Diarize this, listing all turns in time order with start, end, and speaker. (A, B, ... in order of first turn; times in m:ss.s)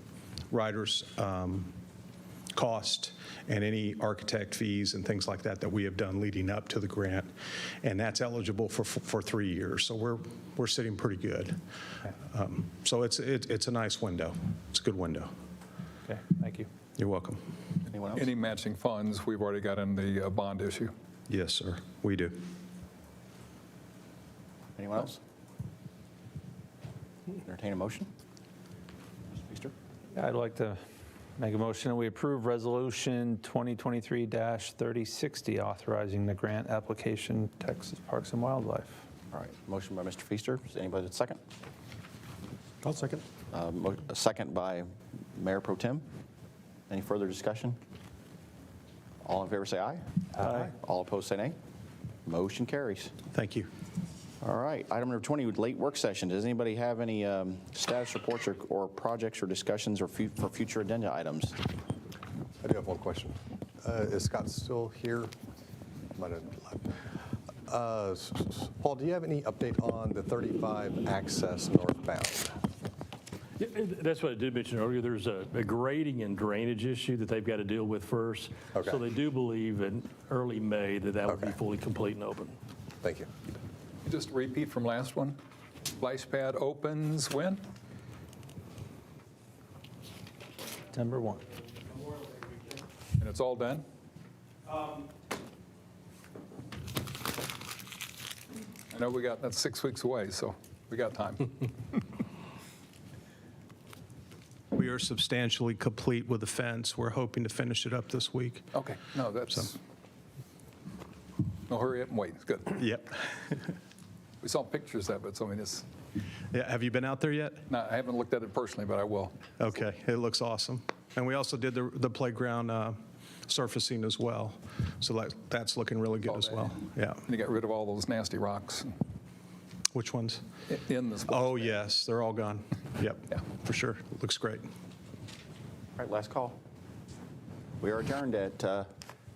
0:00.5-0:01.7 A
0:02.5-0:07.3 A
0:07.8-0:11.6 A
0:12.2-0:15.3 A
0:16.1-0:16.7 B
0:17.0-0:17.4 A
0:17.9-0:18.3 C
0:18.1-0:20.9 D
0:21.3-0:22.4 A
0:24.8-0:25.2 C
0:27.4-0:28.1 C
0:29.3-0:29.7 C
0:30.2-0:30.8 B
0:31.4-0:39.0 B
0:39.3-0:41.4 C
0:43.5-0:46.0 C
0:46.9-0:47.8 C
0:49.2-0:51.6 C
0:52.2-0:53.1 C
0:53.3-0:53.7 A
0:54.4-1:01.6 C
1:02.6-1:05.3 E
1:06.1-1:07.0 E
1:07.7-1:12.6 E
1:13.6-1:22.6 F
1:18.8-1:19.0 E
1:21.2-1:21.6 E
1:23.0-1:23.3 E
1:24.0-1:25.4 D
1:25.9-1:27.6 D
1:30.9-1:31.4 B
1:33.2-1:33.9 D
1:38.9-1:42.0 D
1:44.8-1:48.7 A
1:48.7-1:49.8 D
1:51.7-1:52.8 D
1:52.8-1:53.6 A
1:54.4-1:55.9 D
1:56.5-1:57.6 A
1:57.7-1:59.4 D
1:59.6-2:07.2 A
2:07.2-2:09.0 D
2:09.9-2:10.4 A
2:10.7-2:11.8 D
2:11.3-2:14.7 A
2:16.0-2:16.6 C
2:17.8-2:18.9 C